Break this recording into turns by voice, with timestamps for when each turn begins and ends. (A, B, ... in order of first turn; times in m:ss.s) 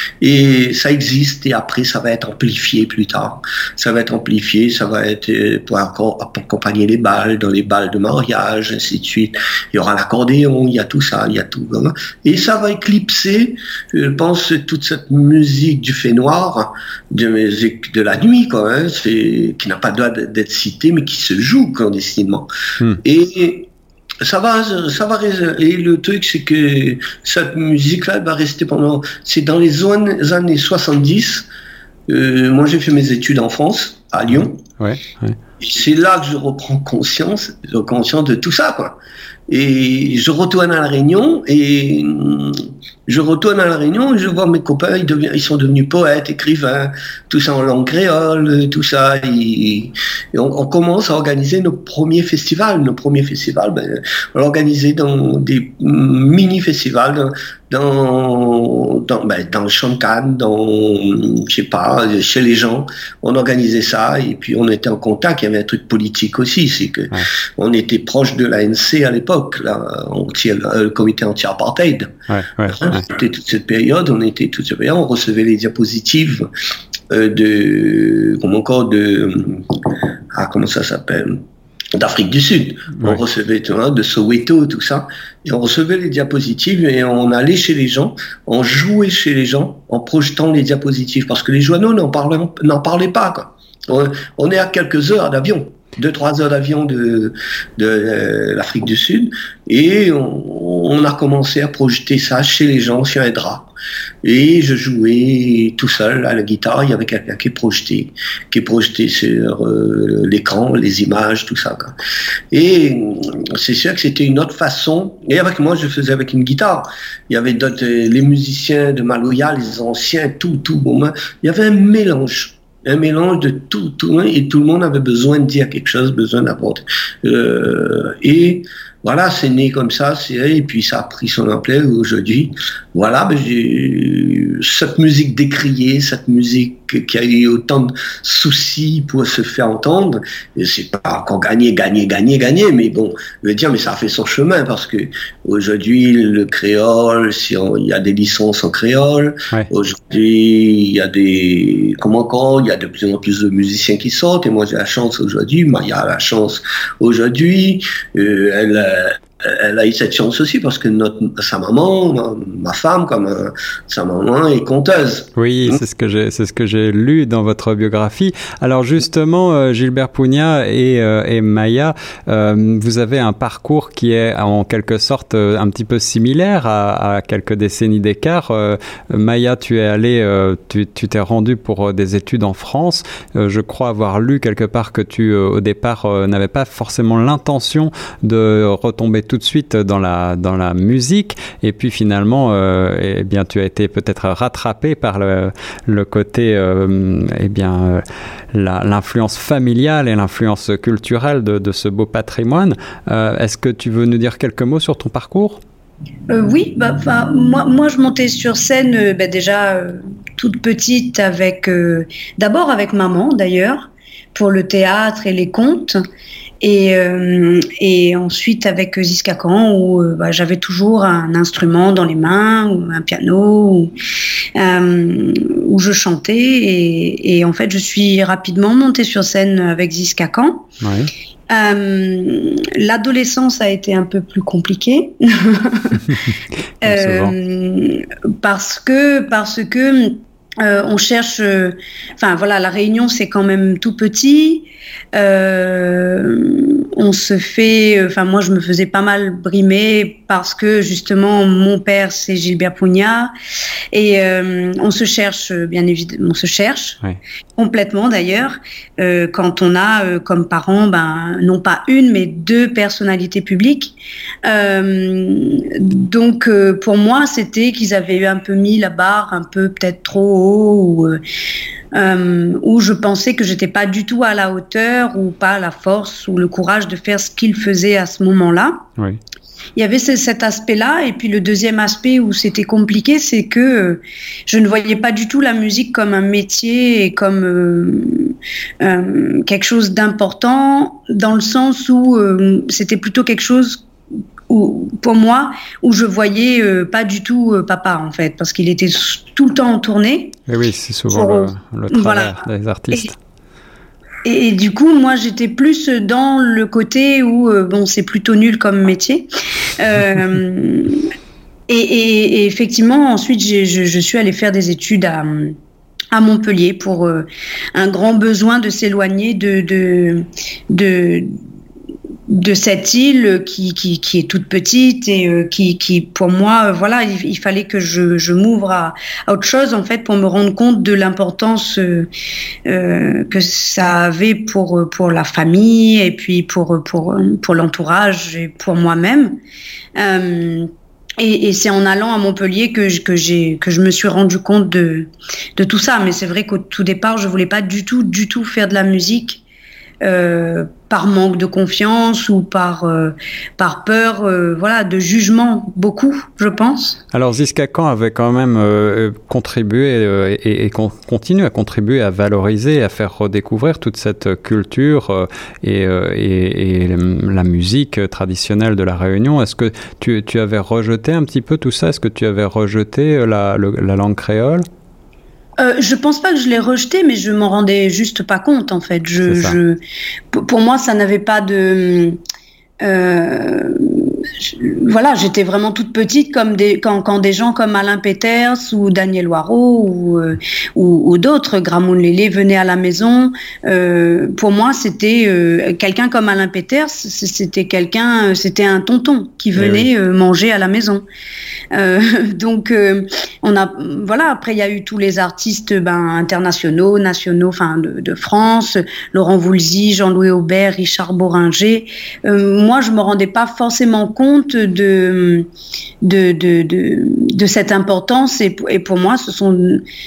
0:00.2-0:22.5 A
0:23.0-0:23.7 A
0:24.2-0:31.5 A
0:32.1-0:34.6 A
0:34.8-0:35.4 B
0:35.6-1:12.1 A
1:12.3-1:13.0 B
1:12.6-1:16.5 A
1:17.1-1:19.8 A
1:20.3-1:21.4 A
1:22.0-1:43.7 A
1:44.2-1:52.0 A
1:52.5-2:45.8 A
2:45.4-3:18.0 B
3:18.5-3:25.6 B
3:26.3-3:36.0 C
3:36.6-3:43.9 C
3:44.5-3:50.7 C
3:50.8-3:51.1 B
3:51.5-3:56.0 C
3:56.0-3:56.3 B
3:56.8-4:13.3 C
3:56.8-3:57.3 B
4:13.9-4:17.0 C
4:17.6-4:31.2 C
4:31.9-4:38.8 C
4:39.8-4:53.8 C
4:54.5-5:00.4 C
5:00.5-5:03.2 B
5:01.1-5:02.4 C
5:04.2-5:11.1 C
5:11.7-5:15.5 C
5:16.1-5:21.4 C
5:22.3-5:32.1 C
5:32.7-5:39.4 C
5:40.0-5:49.4 C
5:50.0-5:57.0 C
5:57.1-6:14.7 B
6:15.6-6:19.8 C
6:19.2-6:19.6 B
6:20.3-6:22.2 C
6:22.8-6:41.0 C
6:39.6-6:39.9 B
6:41.7-6:55.5 C
6:56.0-6:59.8 C